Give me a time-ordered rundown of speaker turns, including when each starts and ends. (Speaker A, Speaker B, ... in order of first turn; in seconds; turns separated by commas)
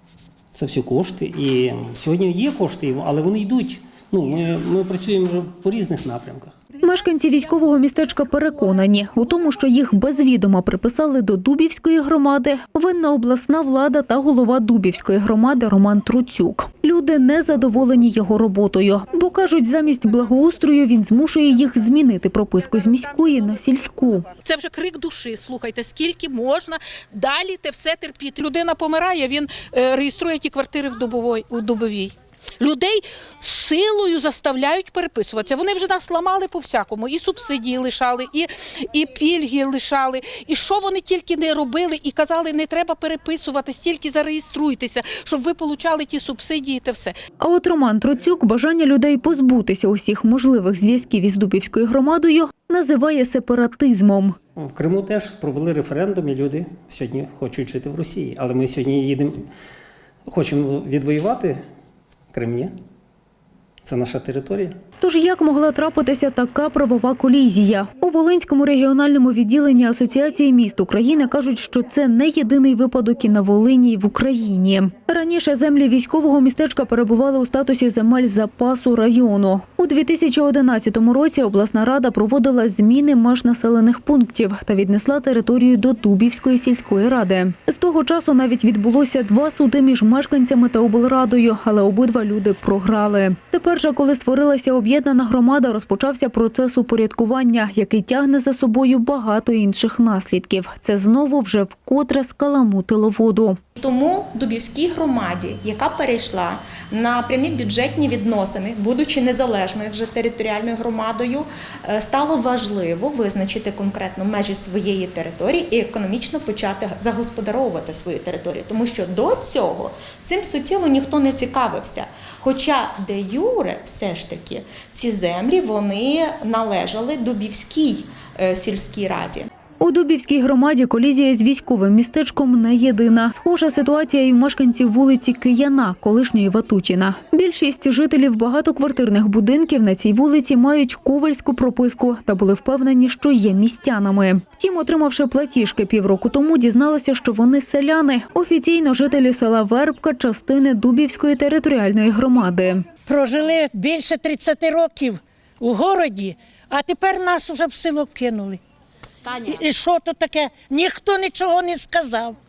Speaker A: 0.5-6.5, Speaker B: 6.8-24.3, Speaker C: 24.4-47.1, Speaker B: 47.4-54.4, Speaker A: 54.6-59.4, Speaker A: 60.3-61.6, Speaker A: 62.3-62.7, Speaker A: 63.8-64.8, Speaker B: 65.0-103.6, Speaker D: 103.8-129.5, Speaker B: 129.8-152.8, Speaker E: 153.1-158.6, Speaker E: 159.6-162.3